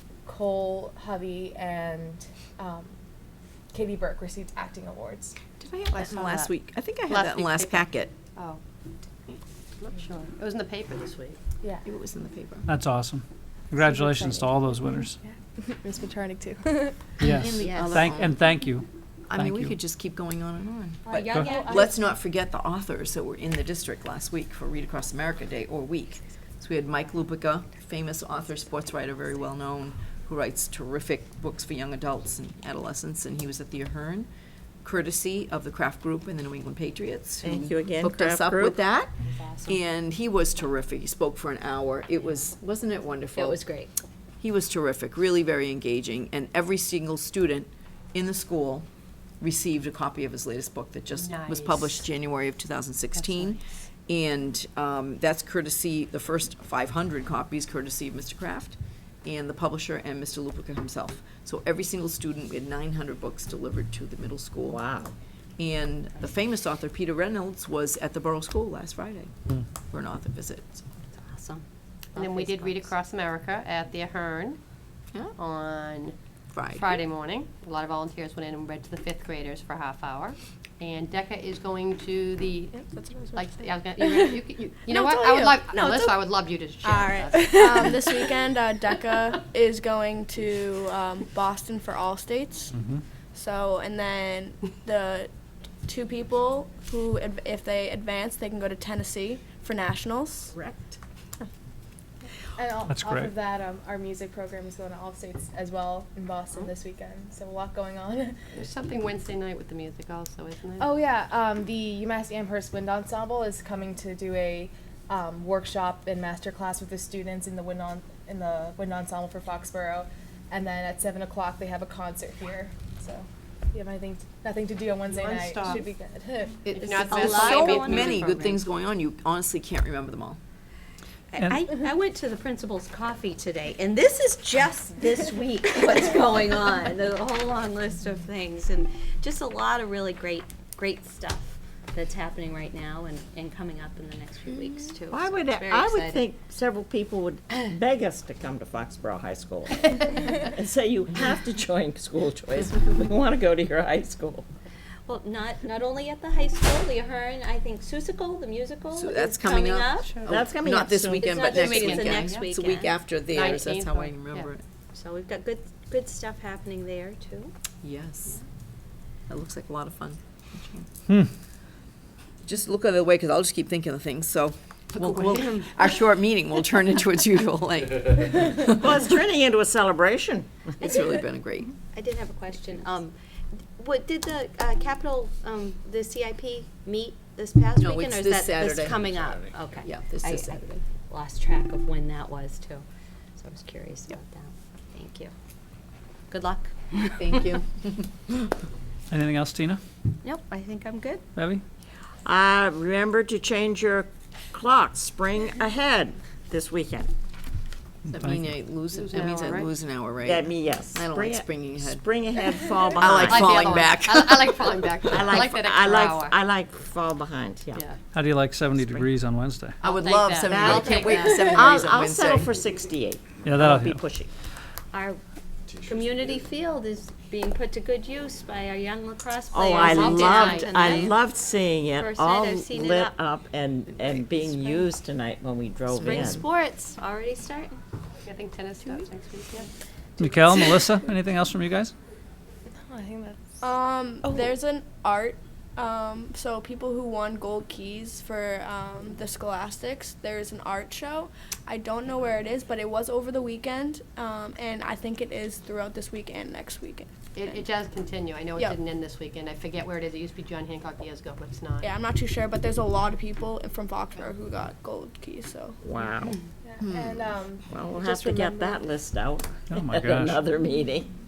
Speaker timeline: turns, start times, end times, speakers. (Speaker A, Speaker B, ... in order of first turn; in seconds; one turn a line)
Speaker A: 0.2-3.0
Speaker A: 3.7-5.3
Speaker B: 5.6-8.2
Speaker C: 5.9-8.6
Speaker C: 9.8-11.4
Speaker A: 11.6-11.9
Speaker B: 11.8-12.7
Speaker D: 12.7-15.2
Speaker A: 13.8-17.0
Speaker D: 17.2-19.8
Speaker B: 17.3-18.4
Speaker E: 17.6-18.0
Speaker B: 19.3-34.3
Speaker E: 21.0-22.0
Speaker D: 21.3-21.6
Speaker A: 21.5-22.0
Speaker B: 34.8-43.6
Speaker F: 37.4-38.8
Speaker E: 39.4-39.8
Speaker E: 43.3-43.9
Speaker B: 44.4-48.9
Speaker B: 49.4-64.8
Speaker C: 51.1-52.1
Speaker C: 53.1-53.5
Speaker F: 64.6-65.1
Speaker B: 65.6-70.8
Speaker E: 71.1-72.9
Speaker C: 72.2-74.6
Speaker C: 75.3-76.2
Speaker B: 76.5-77.0
Speaker C: 76.7-82.8
Speaker G: 82.7-84.4
Speaker C: 83.3-88.2
Speaker G: 85.0-86.2
Speaker G: 86.8-92.7
Speaker D: 92.7-93.0
Speaker G: 93.3-95.3
Speaker G: 95.8-100.5
Speaker F: 100.5-100.9
Speaker A: 102.5-108.5
Speaker D: 102.9-103.3
Speaker C: 108.5-110.9
Speaker A: 110.8-126.7
Speaker C: 125.1-125.9
Speaker B: 126.6-130.4
Speaker E: 126.7-128.6
Speaker C: 126.8-128.6
Speaker E: 131.3-146.2
Speaker D: 131.4-131.7
Speaker F: 145.1-154.4
Speaker E: 155.1-160.2
Speaker B: 158.9-164.6
Speaker C: 160.1-160.3
Speaker F: 160.2-161.7
Speaker E: 161.1-163.1
Speaker C: 161.4-162.5
Speaker C: 163.2-164.5
Speaker E: 164.9-167.5
Speaker B: 167.8-168.4
Speaker B: 169.3-170.9
Speaker B: 172.4-179.1
Speaker F: 178.8-180.7
Speaker E: 180.8-181.2
Speaker B: 180.8-181.7
Speaker E: 181.9-183.1
Speaker E: 183.8-192.8
Speaker B: 187.8-189.2
Speaker F: 189.1-189.4
Speaker B: 189.8-190.8
Speaker E: 193.4-195.3
Speaker E: 196.3-197.3
Speaker B: 197.2-198.4
Speaker D: 199.1-199.8
Speaker E: 200.2-201.2
Speaker D: 201.3-201.6
Speaker F: 202.2-207.1
Speaker D: 208.0-208.6
Speaker B: 208.1-212.1
Speaker C: 208.9-209.7
Speaker F: 210.2-213.7
Speaker B: 212.9-215.5
Speaker C: 213.2-216.4
Speaker F: 215.1-217.8
Speaker C: 217.7-218.0
Speaker D: 218.1-219.8
Speaker C: 219.8-221.2
Speaker B: 219.8-222.5
Speaker F: 220.5-224.3
Speaker E: 220.9-221.6
Speaker D: 223.4-224.1
Speaker E: 224.9-225.2
Speaker E: 225.8-231.2
Speaker F: 229.5-236.4
Speaker C: 229.9-231.2
Speaker E: 231.9-233.2
Speaker E: 234.3-234.9
Speaker E: 235.9-237.8
Speaker C: 238.2-239.7
Speaker D: 240.2-241.9
Speaker A: 242.8-243.6
Speaker G: 243.6-257.6
Speaker C: 257.3-261.9
Speaker G: 261.8-265.8
Speaker F: 265.8-266.4
Speaker A: 266.6-268.8
Speaker B: 266.8-267.2
Speaker F: 267.7-271.1
Speaker D: 269.7-270.5